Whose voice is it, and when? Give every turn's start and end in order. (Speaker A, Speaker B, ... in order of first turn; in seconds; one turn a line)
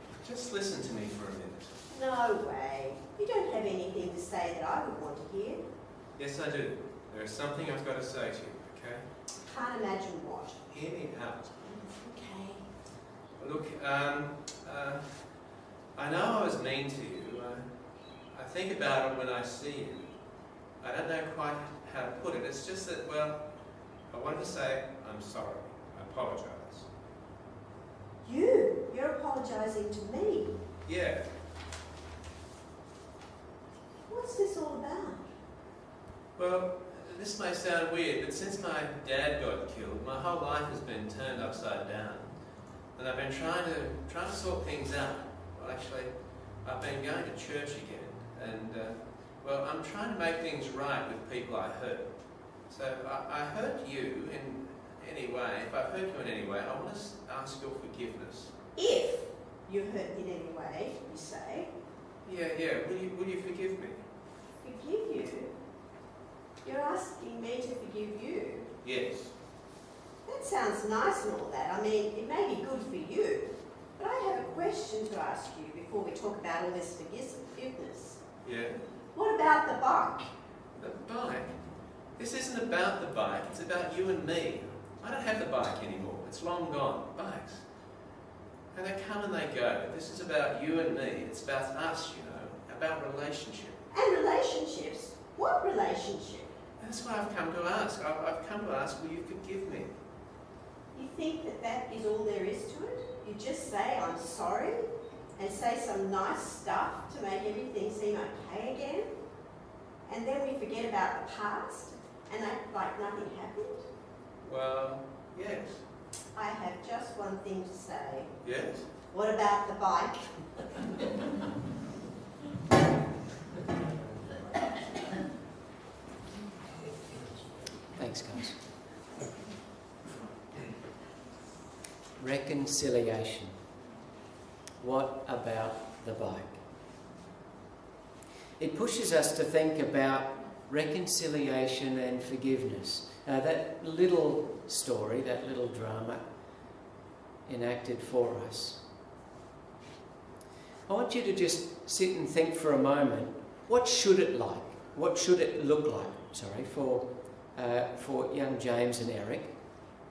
Speaker A: 0.1-1.8
Speaker B: 1.9-5.7
Speaker A: 6.2-9.1
Speaker B: 9.4-10.6
Speaker A: 10.7-11.9
Speaker B: 11.6-12.6
Speaker A: 13.3-17.7
Speaker A: 18.3-20.1
Speaker A: 20.8-23.6
Speaker A: 24.1-26.9
Speaker B: 28.2-30.6
Speaker A: 30.9-31.2
Speaker B: 34.1-35.3
Speaker A: 36.4-42.3
Speaker A: 42.9-58.5
Speaker B: 58.8-61.7
Speaker A: 62.2-64.0
Speaker B: 64.6-65.5
Speaker B: 66.6-68.7
Speaker A: 68.8-69.3
Speaker B: 70.2-78.2
Speaker A: 78.4-78.8
Speaker B: 79.1-80.3
Speaker A: 80.8-81.6
Speaker A: 82.2-87.6
Speaker A: 88.7-93.8
Speaker B: 93.9-96.5
Speaker A: 96.8-99.9
Speaker B: 100.9-104.8
Speaker B: 105.4-109.1
Speaker B: 110.0-113.8
Speaker A: 114.4-115.9
Speaker B: 116.3-118.4
Speaker A: 118.4-118.9
Speaker B: 118.9-120.3
Speaker C: 127.9-128.6
Speaker C: 132.2-133.6
Speaker C: 134.8-136.6
Speaker C: 138.6-146.2
Speaker C: 147.4-148.8
Speaker C: 150.9-159.6